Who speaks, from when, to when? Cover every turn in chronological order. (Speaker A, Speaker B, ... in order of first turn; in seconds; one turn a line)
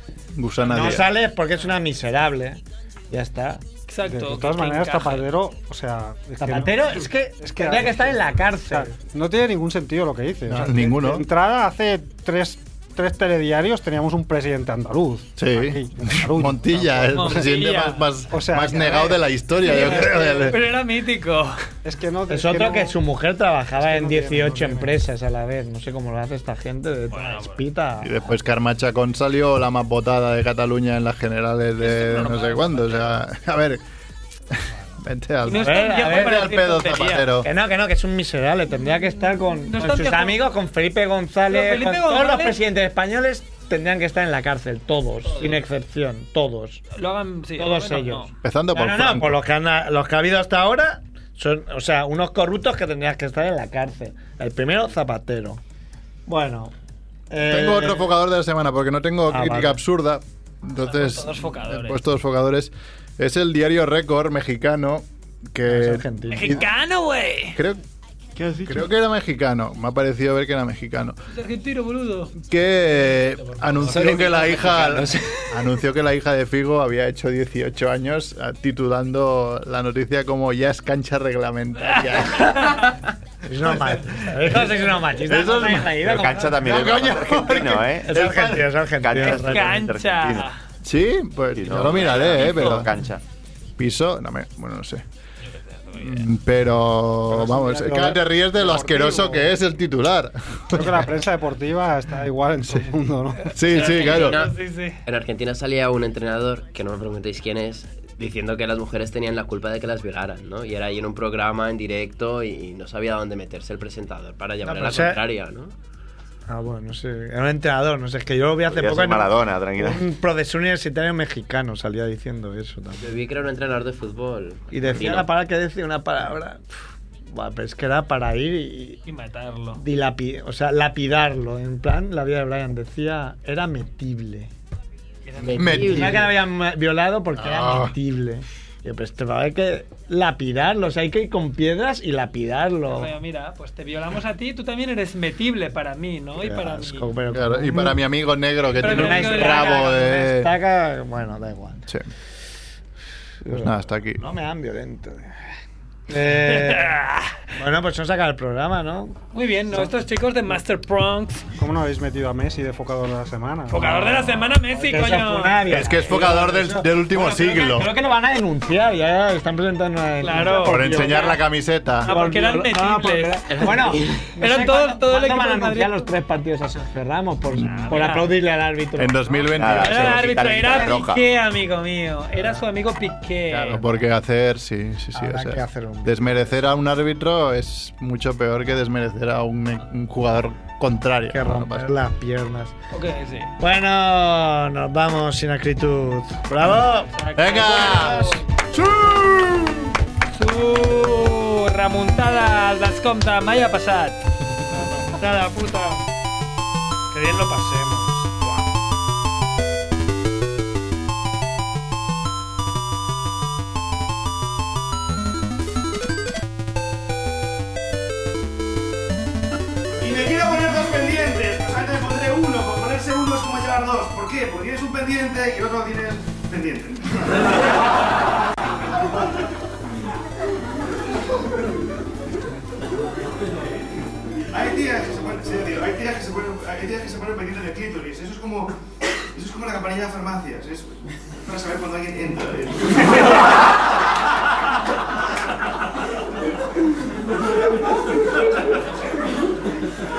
Speaker A: 0.3-1.1
Speaker B: 0.6-3.6
Speaker C: 3.9-5.3
Speaker D: 4.0-17.4
Speaker B: 6.4-8.9
Speaker A: 10.5-11.2
Speaker A: 15.4-20.7
Speaker C: 17.1-18.1
Speaker D: 18.3-19.2
Speaker C: 19.6-21.6
Speaker D: 21.8-23.0
Speaker B: 22.3-28.4
Speaker D: 23.8-25.0
Speaker C: 27.1-27.6
Speaker A: 28.0-33.8
Speaker C: 31.8-33.2
Speaker A: 34.5-37.5
Speaker C: 35.4-37.4
Speaker B: 35.5-36.5
Speaker B: 37.4-46.9
Speaker C: 39.6-40.5
Speaker C: 41.5-42.6
Speaker C: 45.3-45.6
Speaker C: 46.9-48.3
Speaker B: 47.5-55.6
Speaker A: 48.4-49.4
Speaker B: 56.3-56.7
Speaker B: 57.3-58.1
Speaker A: 57.5-66.7
Speaker B: 59.3-59.8
Speaker C: 60.8-62.0
Speaker B: 65.7-66.6
Speaker C: 66.3-67.6
Speaker A: 67.5-67.8
Speaker A: 68.6-71.2
Speaker C: 71.3-72.3
Speaker A: 72.4-82.9
Speaker C: 73.6-74.8
Speaker E: 73.8-75.4
Speaker C: 81.9-82.8
Speaker B: 83.4-86.5
Speaker A: 83.6-88.6
Speaker F: 86.0-88.3
Speaker B: 88.0-89.7
Speaker F: 88.9-90.5
Speaker C: 89.2-90.6
Speaker A: 90.8-93.0
Speaker F: 91.5-93.2
Speaker A: 93.8-95.0
Speaker C: 95.7-96.3
Speaker A: 96.0-101.0
Speaker D: 97.3-98.3
Speaker B: 99.0-99.4
Speaker D: 100.7-103.6
Speaker A: 103.5-104.4
Speaker C: 103.7-105.0
Speaker E: 103.8-115.7
Speaker B: 114.6-115.2
Speaker B: 116.5-123.1
Speaker F: 118.7-120.0
Speaker E: 123.0-125.3
Speaker B: 124.7-126.6
Speaker B: 127.3-129.0
Speaker C: 129.1-129.8
Speaker B: 129.7-134.5
Speaker C: 135.2-136.0
Speaker E: 135.4-136.3
Speaker A: 135.6-136.3
Speaker B: 135.8-143.1
Speaker A: 137.4-137.9
Speaker C: 142.9-147.1
Speaker B: 146.4-148.0
Speaker A: 147.3-150.5
Speaker C: 148.7-150.1
Speaker B: 148.8-151.9
Speaker B: 153.4-155.3
Speaker A: 153.5-154.2
Speaker B: 156.1-157.0
Speaker C: 156.3-157.4
Speaker B: 157.6-159.2
Speaker C: 159.3-161.5
Speaker D: 161.6-164.3
Speaker C: 163.7-165.7
Speaker B: 164.7-171.4
Speaker A: 165.7-167.9
Speaker C: 170.2-171.2
Speaker A: 170.5-172.1
Speaker C: 172.1-176.1
Speaker B: 172.1-180.1
Speaker E: 173.5-174.2
Speaker C: 177.6-178.3
Speaker A: 177.6-177.9
Speaker A: 179.0-180.4
Speaker F: 179.6-181.2
Speaker C: 179.7-183.9
Speaker B: 180.7-181.0
Speaker A: 183.5-191.9
Speaker B: 185.1-186.6
Speaker B: 191.3-192.8
Speaker C: 192.9-193.5
Speaker B: 193.6-197.1
Speaker A: 196.5-199.8
Speaker C: 197.1-198.4
Speaker B: 197.8-198.1
Speaker C: 200.3-204.2
Speaker B: 204.7-205.9
Speaker B: 207.1-208.5
Speaker G: 220.0-227.1
Speaker G: 234.5-238.7
Speaker G: 239.3-242.9